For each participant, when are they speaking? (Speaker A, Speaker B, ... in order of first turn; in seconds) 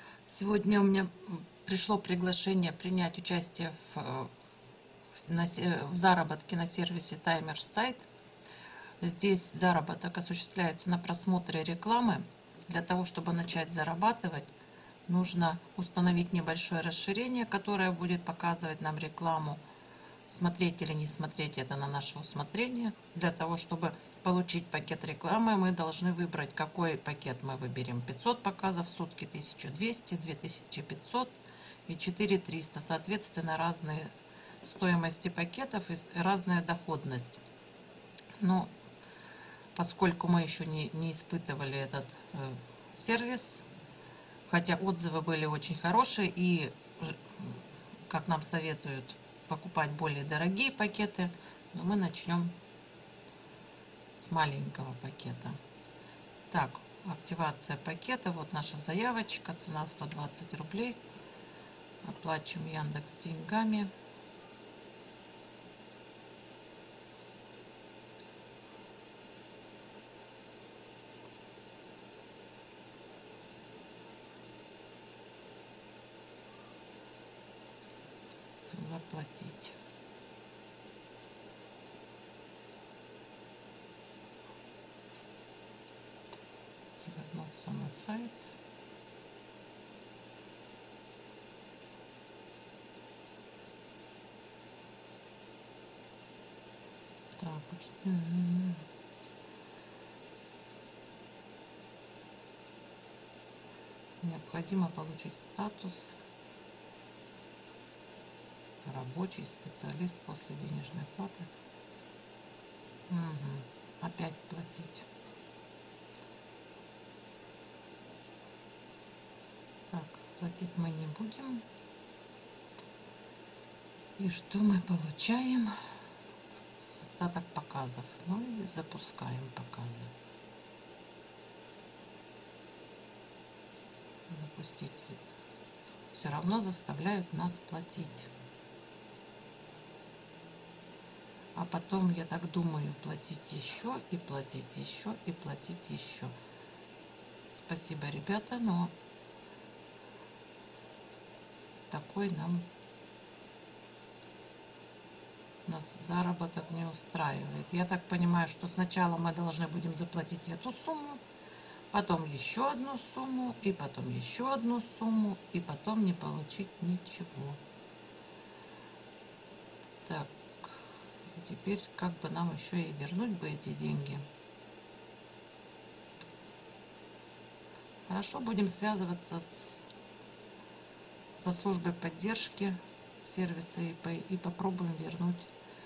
Speaker A: 0.3-4.3, 5.1-8.1, 9.0-14.5, 15.1-19.6, 20.3-37.4, 38.4-38.7, 39.7-43.6, 44.5-52.5, 54.1-55.6, 56.5-61.0, 62.0-63.9, 78.7-79.8, 87.0-88.5, 97.4-98.8, 104.2-106.2, 108.8-111.5, 113.1-115.1, 119.9-121.6, 124.2-125.8, 127.0-130.1, 134.3-135.2, 136.1-138.3, 141.5-146.3, 147.5-148.9, 151.9-152.7, 155.7-161.2, 161.9-167.6, 170.0-174.2, 178.1-179.9, 181.4-185.5